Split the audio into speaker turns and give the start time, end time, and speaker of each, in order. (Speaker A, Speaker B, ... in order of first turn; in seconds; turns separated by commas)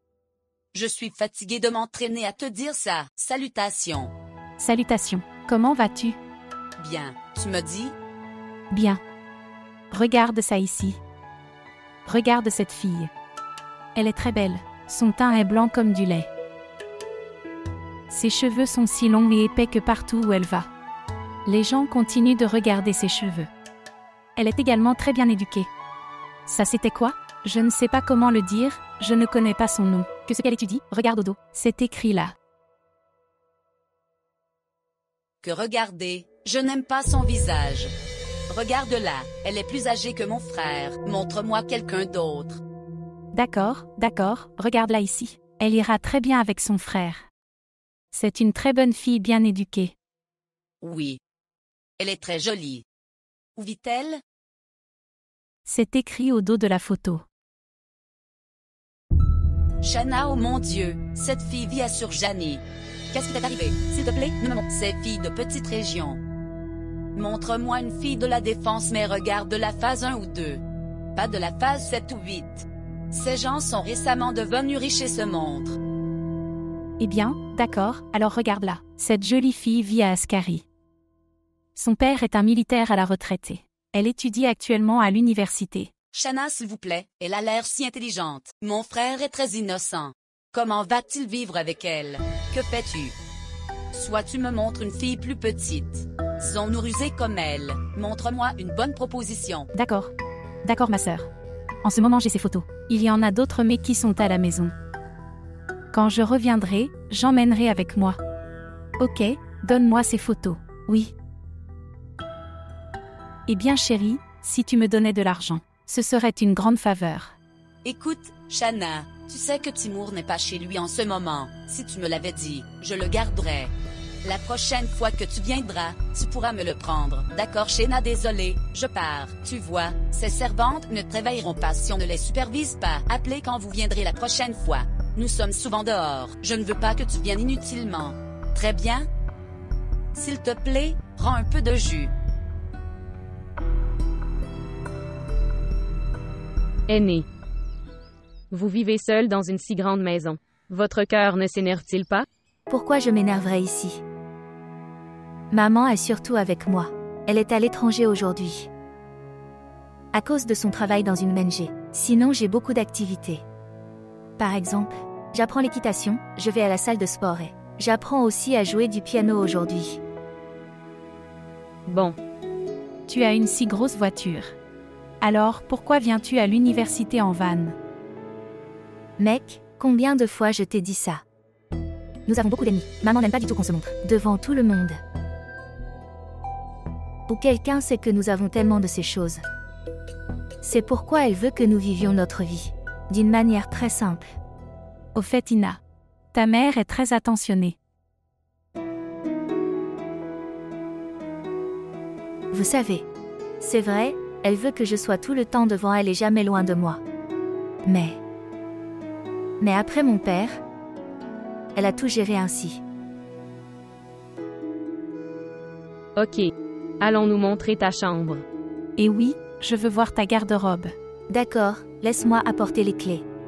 Speaker A: 0.7-4.1, Speaker B: 4.6-6.2, Speaker A: 6.8-8.0, Speaker B: 8.7-9.0, Speaker B: 9.9-11.0, Speaker B: 12.1-13.1, Speaker B: 13.9-16.3, Speaker B: 18.1-20.7, Speaker B: 21.5-23.5, Speaker B: 24.4-25.7, Speaker B: 26.5-32.4, Speaker A: 35.4-37.9, Speaker A: 38.5-42.6, Speaker B: 43.3-47.3, Speaker B: 48.1-49.9, Speaker A: 50.8-51.2, Speaker A: 52.0-52.8, Speaker A: 53.6-54.2, Speaker B: 55.7-57.2, Speaker A: 59.8-66.2, Speaker A: 67.2-70.6, Speaker A: 71.2-75.8, Speaker B: 77.0-80.7, Speaker B: 81.8-85.9, Speaker A: 86.1-93.2, Speaker A: 93.9-99.7, Speaker B: 99.7-100.1, Speaker B: 100.6-101.3, Speaker B: 101.8-104.7, Speaker B: 105.9-108.2, Speaker B: 109.0-111.1, Speaker B: 113.5-117.4, Speaker A: 117.8-123.7, Speaker A: 124.2-139.1, Speaker A: 140.1-142.1, Speaker C: 146.9-147.3, Speaker C: 148.5-152.3, Speaker D: 152.7-154.0, Speaker D: 155.5-158.7, Speaker D: 160.1-163.4, Speaker D: 164.4-170.0, Speaker C: 171.9-172.2, Speaker B: 173.1-174.6, Speaker B: 175.2-177.8, Speaker D: 179.2-181.2, Speaker D: 182.3-185.0, Speaker D: 187.3-189.4, Speaker D: 190.6-194.3, Speaker B: 195.2-195.8, Speaker B: 196.3-197.8, Speaker D: 202.5-203.1, Speaker D: 203.6-207.0, Speaker D: 207.9-208.2, Speaker D: 209.6-210.6, Speaker D: 211.8-212.8, Speaker C: 216.2-218.4, Speaker B: 219.0-220.9, Speaker D: 221.3-223.3